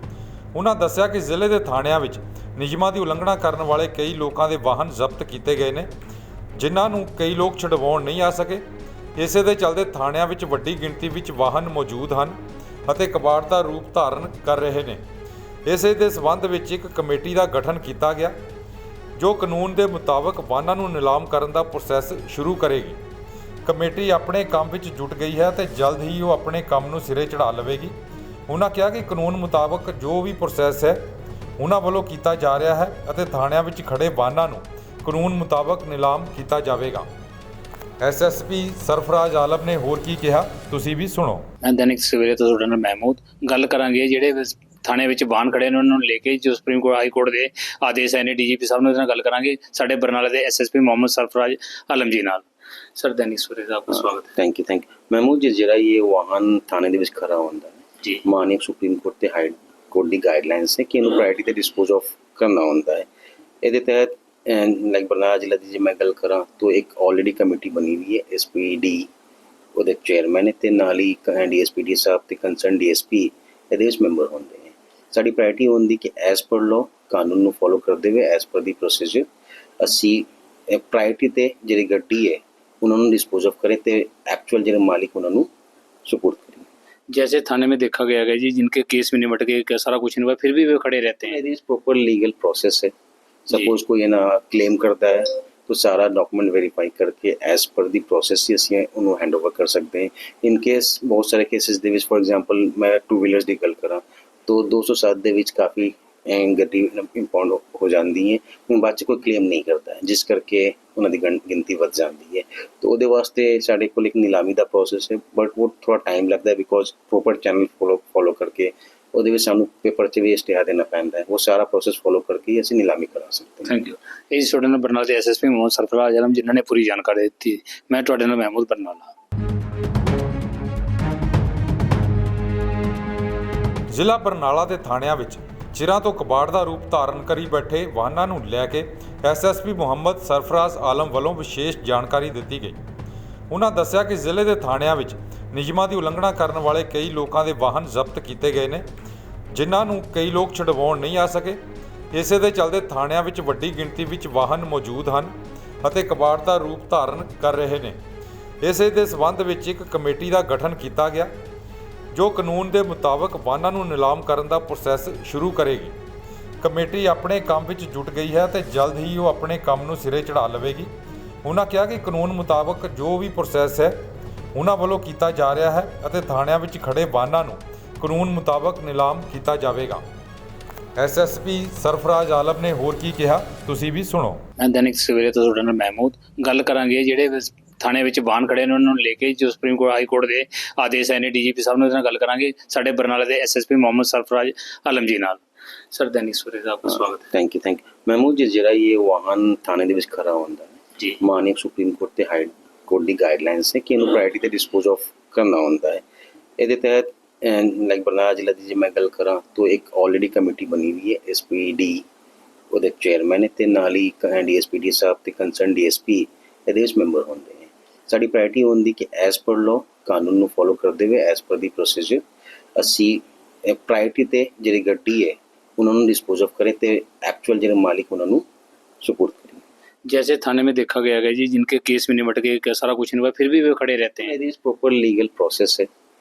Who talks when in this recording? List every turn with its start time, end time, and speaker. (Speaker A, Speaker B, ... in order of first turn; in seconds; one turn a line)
Speaker A: 0.5-5.9
Speaker A: 6.5-8.6
Speaker A: 9.2-15.0
Speaker A: 15.7-18.4
Speaker A: 19.2-23.0
Speaker A: 23.6-27.9
Speaker A: 28.5-31.0
Speaker A: 31.6-37.1
Speaker A: 38.0-41.5
Speaker B: 41.6-52.4
Speaker B: 53.0-54.3
Speaker C: 53.9-63.1
Speaker C: 63.6-69.1
Speaker C: 69.7-79.3
Speaker C: 79.8-85.5
Speaker C: 86.0-86.7
Speaker B: 87.1-91.4
Speaker C: 91.2-92.9
Speaker C: 93.5-123.7
Speaker B: 123.7-129.1
Speaker A: 133.9-142.8
Speaker A: 143.5-148.8
Speaker A: 149.5-151.6
Speaker A: 152.1-158.0
Speaker A: 158.6-161.3
Speaker A: 162.1-165.9
Speaker A: 166.6-170.9
Speaker A: 171.4-174.0
Speaker A: 174.5-180.0
Speaker A: 180.9-184.4
Speaker B: 184.6-195.4
Speaker B: 195.9-197.2
Speaker C: 196.8-206.0
Speaker C: 206.6-212.1
Speaker C: 212.7-222.2
Speaker C: 222.8-228.4
Speaker C: 229.0-229.6
Speaker B: 230.1-234.3
Speaker C: 234.2-235.9